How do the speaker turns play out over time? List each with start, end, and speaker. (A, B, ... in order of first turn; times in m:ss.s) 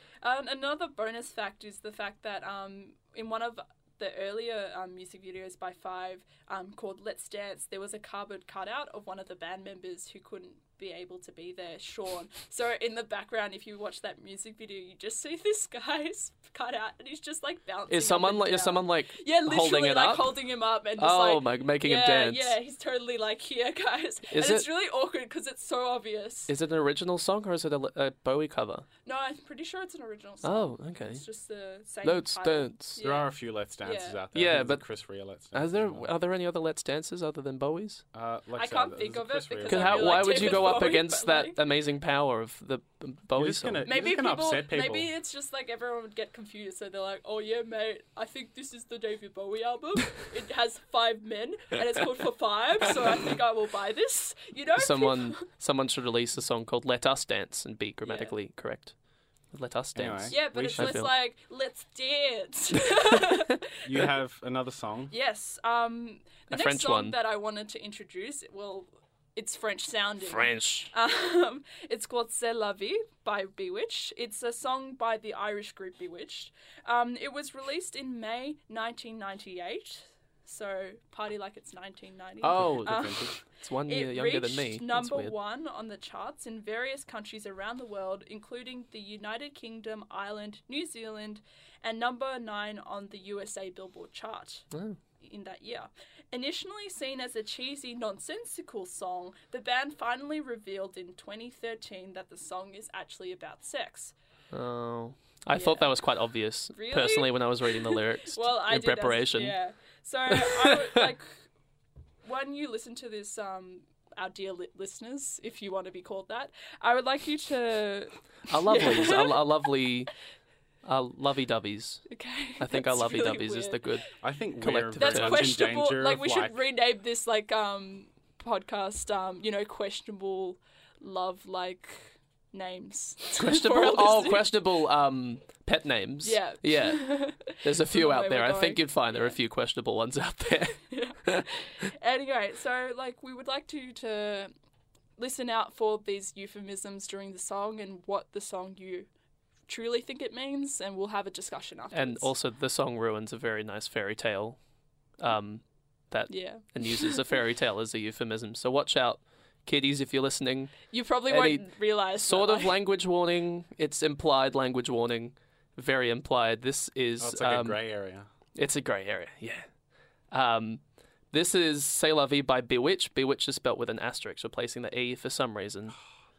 0:00.2-0:26.5 A
0:17.9-0:20.4 B
0:21.0-0:22.6 B
0:24.3-0:24.7 B
0:26.5-0:28.9 B
0:29.0-0:34.2 A
0:30.4-0:31.2 B
0:32.0-0:33.0 B
0:33.0-0:36.1 C
0:34.3-0:34.9 B
0:35.5-0:38.0 B
0:38.1-0:41.0 C
0:38.6-0:41.6 A
0:39.6-0:43.9 B
0:43.4-0:45.1 C
0:43.8-0:55.4 A
0:54.8-0:58.9 B
0:58.0-0:58.3 A
0:59.5-1:01.1 B
0:59.9-1:01.0 C
1:00.3-1:04.1 A
1:03.8-1:05.1 C
1:05.1-1:44.1 A
1:06.5-1:07.2 B
1:10.2-1:10.9 B
1:22.4-1:25.3 B
1:22.6-1:23.3 C
1:34.7-1:35.0 B
1:44.5-1:49.6 B
1:45.5-1:46.0 A
1:46.7-1:51.4 A
1:50.5-1:50.7 B
1:52.2-1:59.5 A
1:58.5-2:00.1 B
2:00.8-2:02.1 B
2:02.1-2:04.0 A
2:02.6-2:05.6 B
2:04.2-2:06.6 C
2:05.0-2:14.6 A
2:13.4-2:21.4 B
2:16.2-2:19.4 A
2:20.9-2:24.5 A
2:25.2-2:29.1 A
2:29.7-2:32.3 A
2:31.9-2:34.6 B
2:35.2-2:40.7 B
2:36.3-2:37.2 A
2:40.9-2:42.8 A
2:41.3-2:47.8 B
2:47.2-2:48.3 C
2:48.6-2:49.7 B
2:50.3-2:56.0 B